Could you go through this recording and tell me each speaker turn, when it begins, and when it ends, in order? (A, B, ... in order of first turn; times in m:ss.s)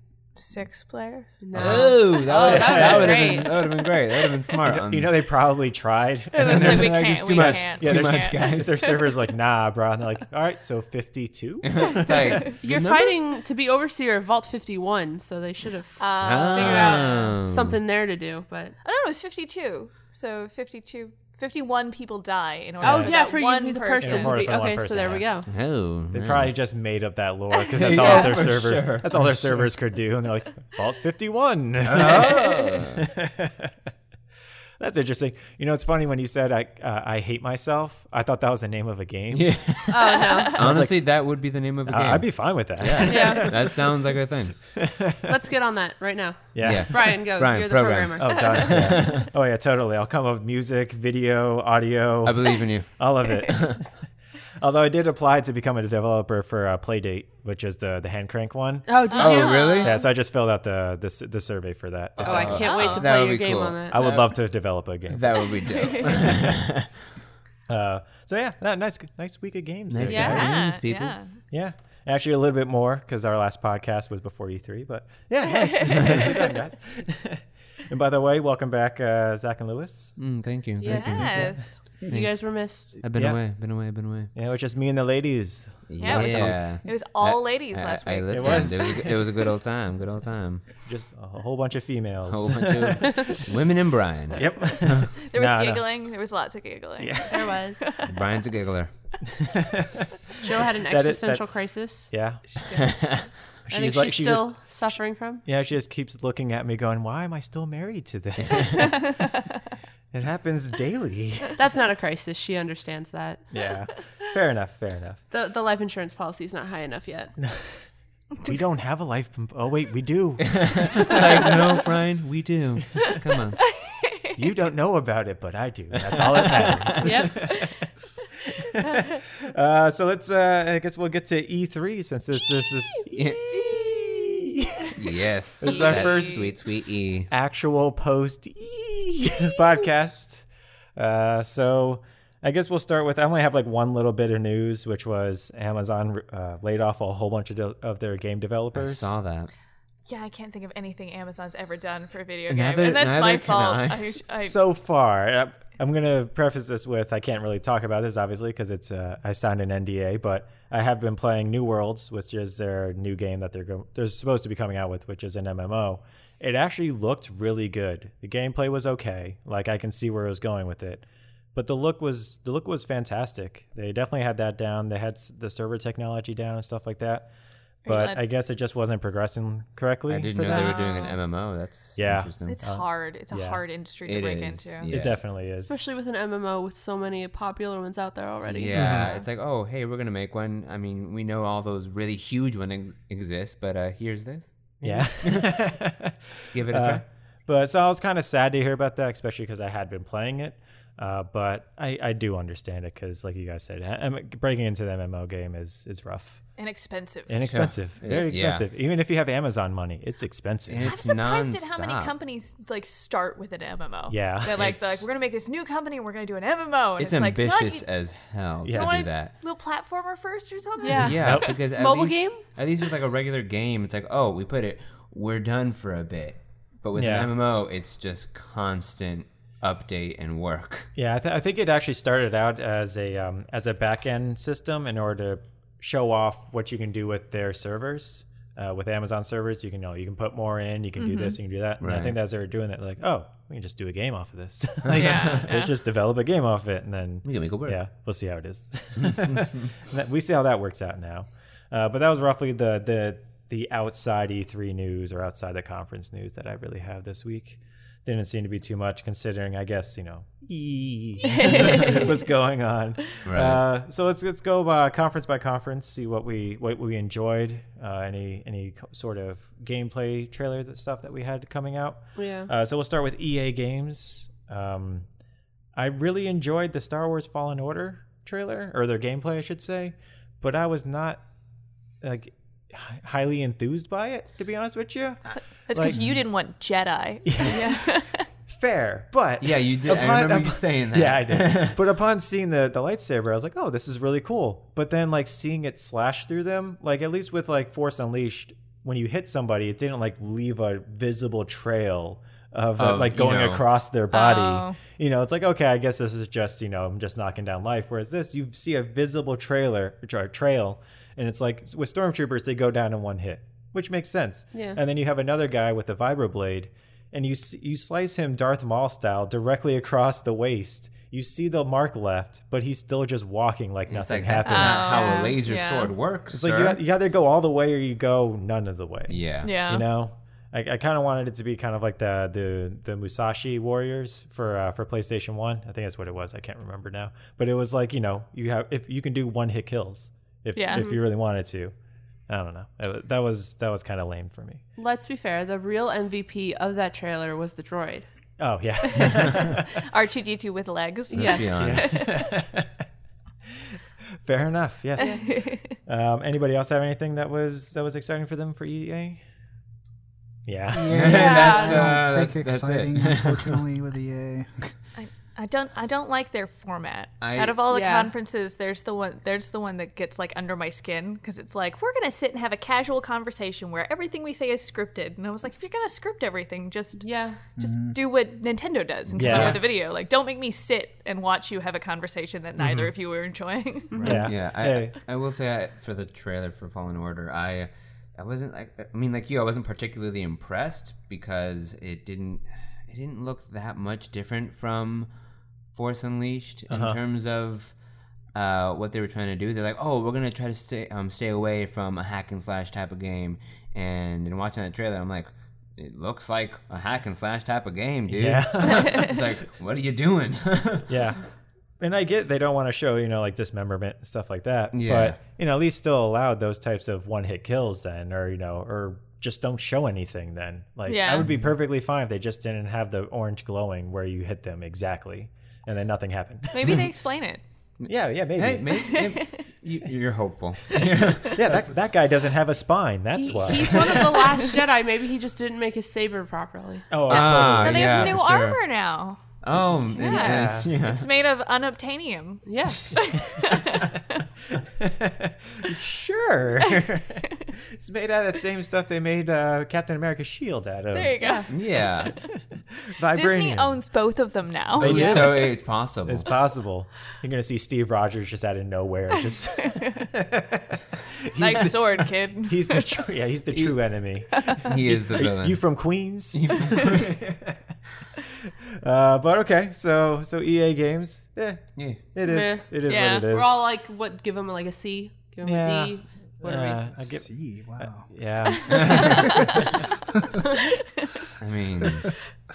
0:00.4-0:01.4 A
0:01.4-0:03.6 B
0:01.5-0:03.5 C
0:01.5-0:05.2 D
0:04.6-0:12.0 C
0:06.3-0:08.9 A
0:06.4-0:08.8 D
0:11.6-0:13.2 D
0:12.0-0:12.6 A
0:12.6-0:18.8 B
0:16.0-0:17.3 A
0:16.2-0:17.8 D
0:18.8-0:24.4 A
0:22.8-0:23.2 C
0:22.8-0:25.5 B
0:24.0-0:25.3 C
0:25.5-0:26.6 D
0:26.1-0:33.7 C
0:27.8-0:29.7 D
0:28.0-0:28.5 B
0:31.8-0:33.1 D
0:34.8-0:40.0 C
0:39.3-0:44.6 D
0:39.9-0:40.7 B
0:40.5-0:43.9 C
0:43.1-0:43.8 B
0:44.8-0:45.3 C
0:45.3-0:48.6 B
0:46.6-0:47.2 C
0:46.6-0:49.3 D
0:48.2-0:53.9 C
0:52.2-0:53.8 D
0:54.6-0:58.9 C
0:58.9-0:59.8 B
0:59.1-1:00.0 A
0:59.2-1:00.0 D
0:59.8-1:02.7 C
1:02.2-1:04.4 D
1:02.2-1:04.0 B
1:02.5-1:03.1 A
1:03.9-1:05.5 C
1:05.1-1:06.9 D
1:05.7-1:06.1 A
1:07.7-1:10.5 C
1:09.9-1:11.3 D
1:10.1-1:10.6 B
1:10.2-1:11.4 A
1:11.5-1:20.2 C
1:15.5-1:16.5 A
1:15.9-1:16.4 D
1:20.2-1:21.4 D
1:20.8-1:21.3 B
1:20.9-1:21.8 A
1:20.9-1:21.6 C
1:22.1-1:22.5 D
1:22.1-1:23.0 B
1:23.0-1:24.3 D
1:23.1-1:23.4 C
1:24.3-1:26.6 C
1:25.9-1:30.6 D
1:26.0-1:29.3 A
1:28.3-1:29.3 C
1:30.8-1:33.4 C
1:32.3-1:35.1 D
1:34.4-1:35.9 C
1:35.2-1:38.1 A
1:37.0-1:37.5 C
1:37.3-1:38.0 B
1:38.0-1:38.9 D
1:39.3-1:41.4 C
1:40.4-1:42.1 B
1:42.1-1:42.4 C
1:42.6-1:42.9 A
1:42.8-1:43.3 D
1:43.7-1:49.2 C
1:43.7-1:45.4 B
1:48.4-1:49.0 D
1:48.9-1:49.2 A
1:50.1-1:51.6 C
1:51.6-1:53.4 B
1:53.5-1:55.2 C
1:55.3-1:57.3 B
1:57.4-1:57.8 C
1:58.4-2:01.4 C
2:00.4-2:03.6 D
2:03.6-2:04.4 A
2:04.4-2:07.9 C
2:06.1-2:07.2 D
2:07.0-2:07.5 B
2:08.4-2:16.5 C
2:13.1-2:13.7 D
2:15.0-2:17.3 D
2:15.6-2:16.4 A
2:17.3-2:20.4 C
2:21.0-2:29.2 C
2:28.7-2:29.5 D
2:30.1-2:34.6 A
2:32.5-2:34.1 D
2:34.2-2:51.0 C
2:51.6-2:57.3 C
2:57.8-2:58.2 A
2:57.9-3:00.8 C
3:00.1-3:02.6 D
3:00.4-3:01.2 A
3:02.0-3:03.6 C
3:02.4-3:04.9 A
3:04.0-3:05.2 D
3:04.9-3:05.8 C
3:05.6-3:08.8 B
3:08.4-3:15.6 D
3:08.7-3:09.1 C
3:14.8-3:26.4 C
3:16.5-3:17.0 D
3:26.6-3:27.4 A
3:27.3-3:31.1 C
3:27.5-3:28.7 D
3:30.7-3:32.1 D
3:30.8-3:37.9 A
3:34.1-3:34.5 C
3:34.5-3:35.0 D
3:37.0-3:39.3 D
3:38.6-3:39.0 C
3:38.7-3:41.5 A
3:40.8-3:42.4 B
3:41.0-3:50.9 D
3:41.2-3:41.5 C
3:47.0-3:47.3 C
3:51.0-4:35.1 C
4:01.0-4:01.4 A
4:01.8-4:02.2 D
4:04.9-4:05.5 D
4:05.0-4:05.7 A
4:07.2-4:07.8 D
4:09.0-4:09.5 D
4:21.2-4:22.1 A
4:23.3-4:23.6 D
4:32.2-4:32.5 B
4:35.8-4:41.2 C
4:42.0-4:46.0 C
4:45.7-4:48.3 A
4:47.2-5:25.0 C
4:49.4-4:51.8 D
5:02.8-5:03.7 D
5:04.1-5:04.8 A
5:14.5-5:14.8 B
5:23.9-5:26.8 D
5:24.4-5:25.9 A
5:24.9-5:25.3 B
5:26.3-5:41.7 C
5:29.1-5:29.5 D
5:29.4-5:29.8 A
5:40.6-5:40.9 A
5:40.7-5:41.0 B
5:42.3-5:44.6 C
5:44.8-5:48.1 B
5:48.4-5:49.7 C
5:48.9-5:52.3 A
5:51.1-5:51.9 D
5:51.2-5:51.6 B
5:51.6-5:52.7 C
5:54.2-5:59.2 C
5:55.0-5:55.3 B
5:55.0-5:55.8 A
6:00.5-6:01.3 C
6:00.7-6:04.8 E
6:00.9-6:03.6 D
6:01.1-6:02.0 B
6:05.0-6:17.0 A
6:07.2-6:07.6 D
6:07.7-6:08.1 B
6:17.0-6:17.4 B
6:17.6-6:24.2 A
6:17.6-6:18.0 E
6:19.2-6:19.6 C
6:19.2-6:19.6 D
6:22.6-6:22.9 C
6:23.9-6:24.3 B
6:24.0-6:35.1 D
6:24.0-6:25.0 C
6:35.7-6:37.7 D
6:36.7-6:37.0 C
6:38.3-6:50.9 D
6:48.1-6:49.2 C
6:50.9-6:51.2 C
6:51.8-7:06.8 C
6:54.7-6:55.2 D
7:00.9-7:01.3 A
7:01.2-7:01.5 D
7:06.5-7:07.4 A
7:07.8-7:11.7 D
7:07.9-7:08.8 C
7:08.8-7:09.4 A
7:11.2-7:14.3 C
7:13.2-7:16.9 B
7:16.9-7:18.2 C
7:17.1-7:18.6 D
7:17.1-7:24.2 A
7:19.4-7:21.1 D
7:20.0-7:20.7 C
7:22.5-7:22.8 B
7:23.1-7:23.4 C
7:24.6-7:31.2 C
7:30.9-7:32.1 A
7:31.5-7:32.1 D
7:32.3-7:33.8 C
7:33.1-7:35.4 A
7:34.8-7:36.3 D
7:34.8-7:53.6 C
7:39.7-7:40.1 A
7:41.4-7:42.9 A
7:44.4-7:44.7 A
7:44.6-7:45.7 D
7:46.3-7:47.2 D
7:51.8-7:52.1 D
7:52.2-7:56.8 B
7:52.8-7:53.3 A
7:55.4-7:57.3 C
7:56.9-7:58.1 E
7:57.8-7:59.8 C
7:58.7-7:59.2 D
7:58.7-7:59.7 A
8:01.4-8:02.1 D